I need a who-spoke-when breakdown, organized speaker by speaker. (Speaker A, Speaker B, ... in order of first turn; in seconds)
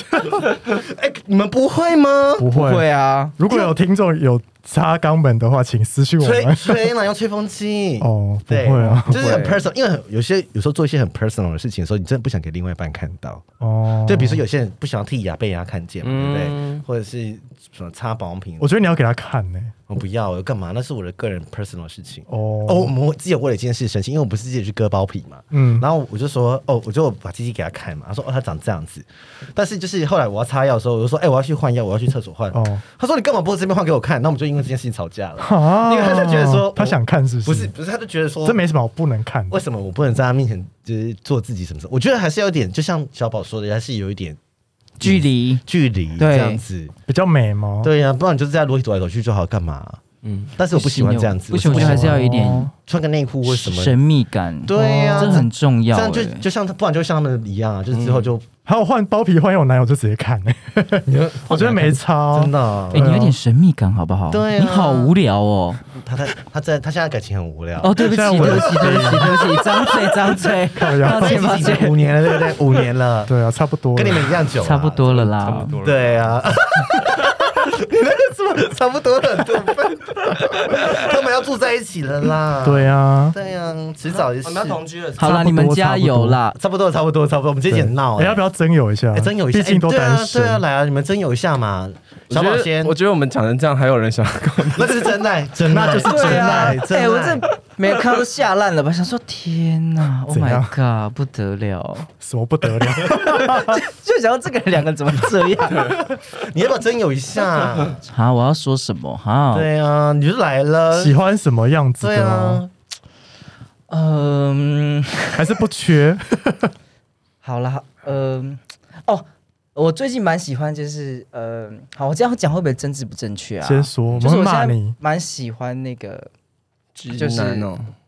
Speaker A: 0.6-2.5, 6.2-13.4, 14.0-18.7, 19.9-38.6, 39.5-44.4, 45.0-46.9, 47.8-50.0, 50.5-52.3, 52.9-54.0, 54.6-58.4, 61.0-63.1, 64.3-65.1, 65.9-70.3, 71.0-73.3, 73.9-75.2, 75.8-84.8, 86.5-88.4, 89.1-92.9, 94.7-97.4, 105.8-108.0, 109.5-111.1, 112.0-112.7
Speaker B: 2.4-2.8, 3.4-6.8, 8.0-9.1, 13.6-14.4, 18.6-19.7, 22.3-22.9, 25.5-25.8, 32.5-32.8, 35.4-37.7, 38.4-39.6, 47.1-47.9, 51.6-52.7, 55.2-55.4, 58.6-63.4, 68.0-69.4, 70.7-71.6, 73.3-74.3, 82.6-83.3, 85.2-86.4, 87.7-90.6, 95.6-96.8, 100.3-100.7, 102.2-103.8, 110.9-112.6, 115.3-116.7, 123.6-125.0
Speaker C: 2.5-3.7, 45.0-45.6, 46.2-46.6, 50.7-52.7, 53.5-56.5, 62.9-65.8, 67.8-72.0, 74.6-75.7, 85.2-86.6, 96.0-102.1, 102.9-106.0, 108.0-109.7, 113.9-115.5, 117.4-126.3, 127.1-127.7
Speaker D: 8.8-9.6, 16.0-16.8, 50.2-50.5, 57.9-58.3, 75.4-76.4, 84.3-85.3, 92.3-95.1, 127.0-127.9